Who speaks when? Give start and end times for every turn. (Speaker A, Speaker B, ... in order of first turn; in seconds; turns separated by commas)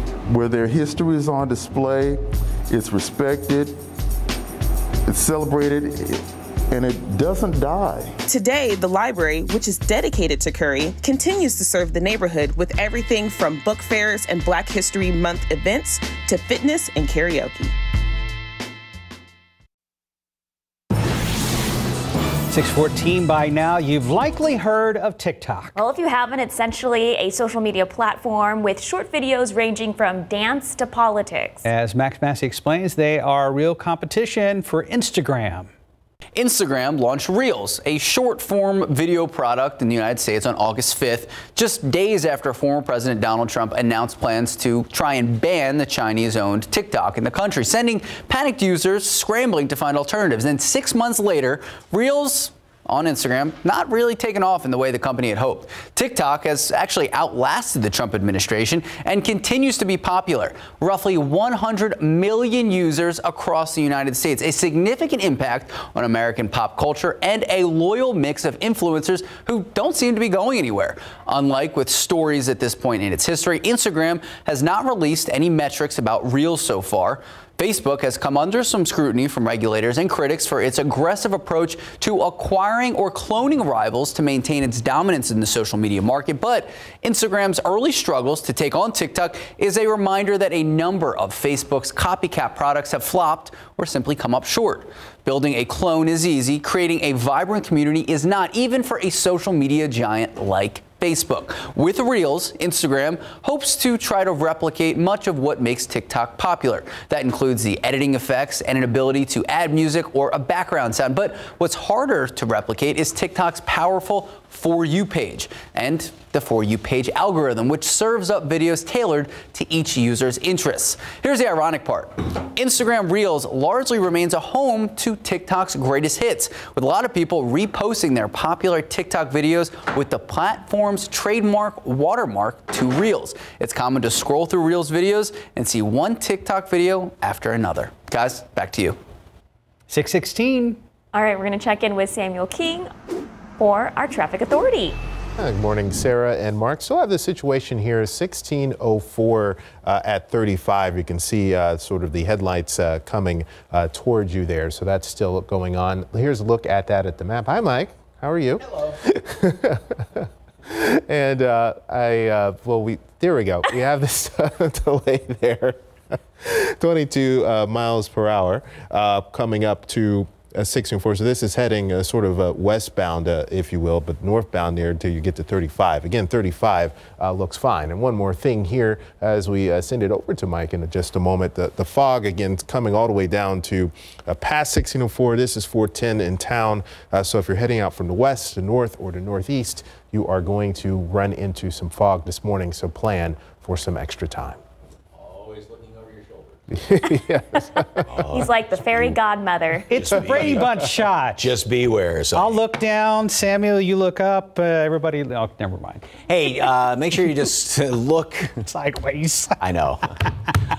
Speaker A: 0.3-3.8, Speaker A: 5.1-8.2, Speaker B: 8.3-17.7, Speaker C: 22.5-25.8, Speaker D: 25.8-31.7, Speaker C: 31.6-35.7, Speaker E: 36.4-139.0, Speaker C: 139.9-140.8, Speaker D: 141.1-142.9, Speaker D: 143.6-145.0, Speaker F: 145.4-194.6, Speaker F: 196.7-198.1, Speaker D: 198.3-200.3, Speaker C: 199.9-201.4, Speaker G: 200.0-200.8, Speaker G: 201.4-202.6, Speaker C: 202.3-206.1, Speaker G: 206.3-208.6, Speaker C: 208.7-209.6, Speaker G: 209.6-210.1